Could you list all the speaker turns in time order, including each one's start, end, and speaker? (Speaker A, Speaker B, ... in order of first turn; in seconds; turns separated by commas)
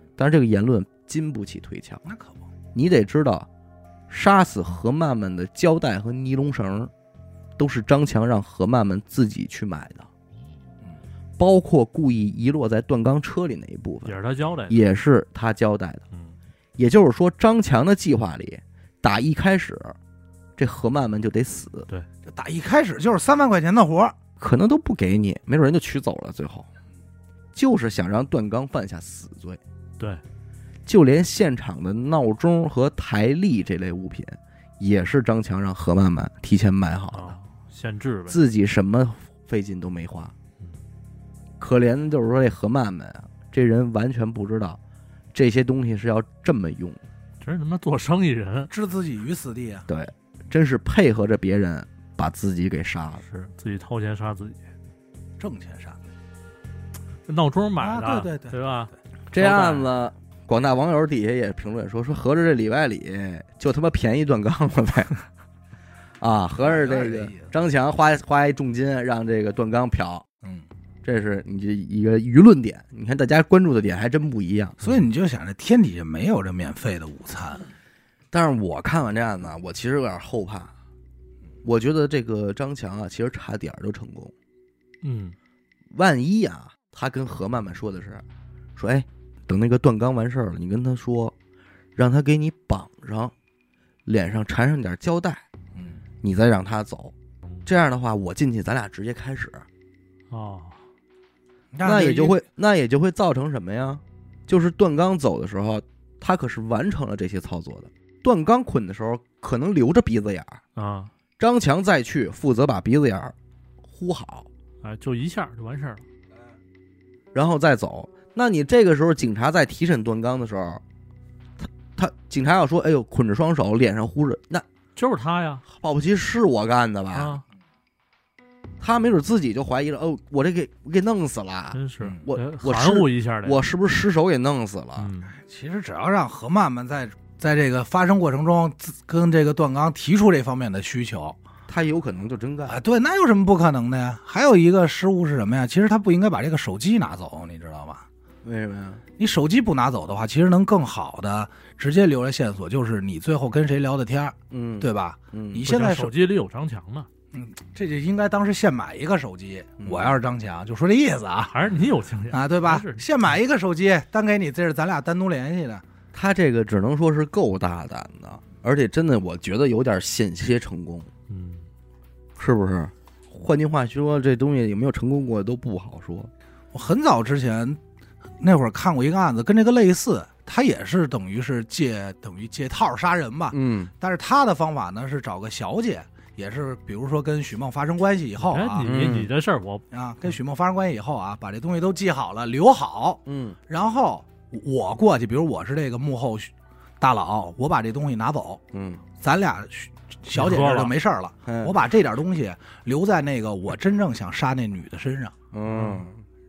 Speaker A: 0.2-2.0, Speaker B: 2.0-2.5, Speaker A: 2.7-3.5, Speaker A: 4.1-6.9, Speaker A: 7.6-10.1, Speaker A: 11.4-14.2, Speaker C: 14.1-14.8, Speaker A: 14.7-16.0, Speaker A: 16.8-20.0, Speaker A: 20.6-21.9, Speaker B: 22.2-24.2, Speaker A: 24.4-26.7, Speaker A: 27.5-29.6, Speaker A: 30.9-37.4, Speaker C: 37.1-38.4, Speaker A: 38.3-40.3, Speaker A: 41.6-44.8, Speaker A: 45.3-47.0, Speaker C: 47.4-48.7, Speaker B: 48.7-49.9, Speaker A: 49.9-53.2, Speaker C: 53.2-54.6, Speaker B: 55.4-56.0, Speaker C: 57.3-59.9, Speaker B: 57.8-58.9, Speaker A: 59.3-65.1, Speaker A: 66.2-70.3, Speaker B: 66.6-67.5, Speaker B: 70.4-70.7, Speaker A: 71.0-74.8, Speaker B: 74.8-77.7, Speaker A: 78.3-80.7, Speaker A: 81.6-84.3, Speaker C: 85.0-85.4, Speaker A: 85.9-88.2, Speaker A: 88.8-91.3, Speaker A: 92.0-93.3, Speaker A: 94.1-95.5, Speaker B: 95.7-96.0, Speaker A: 96.2-97.1, Speaker A: 97.7-99.7, Speaker C: 100.3-100.8, Speaker B: 101.7-102.4, Speaker A: 101.8-110.6, Speaker C: 110.8-111.1, Speaker A: 111.4-113.3, Speaker A: 113.9-114.5, Speaker C: 114.8-116.0, Speaker A: 117.3-120.8, Speaker A: 121.6-124.7, Speaker C: 125.0-125.6, Speaker A: 125.7-127.4, Speaker C: 127.1-127.4, Speaker A: 128.8-135.1, Speaker C: 131.7-133.7, Speaker C: 135.0-135.3, Speaker B: 135.4-141.4, Speaker A: 141.7-142.8, Speaker B: 142.7-148.1, Speaker A: 148.4-149.0, Speaker B: 149.2-156.1, Speaker A: 154.5-155.7, Speaker C: 155.6-157.1, Speaker B: 157.3-161.6, Speaker A: 159.8-160.2, Speaker C: 161.5-163.1, Speaker B: 162.3-165.8, Speaker A: 166.1-171.1, Speaker C: 171.3-171.7, Speaker A: 172.4-176.3, Speaker B: 176.7-177.8, Speaker B: 178.4-188.9, Speaker A: 183.5-183.9, Speaker C: 188.4-189.8, Speaker A: 188.8-189.3, Speaker B: 189.9-198.6, Speaker A: 193.3-193.6, Speaker A: 198.7-199.0, Speaker B: 199.2-205.4, Speaker C: 200.3-200.9, Speaker A: 201.5-201.8, Speaker A: 205.5-206.2, Speaker C: 205.7-206.1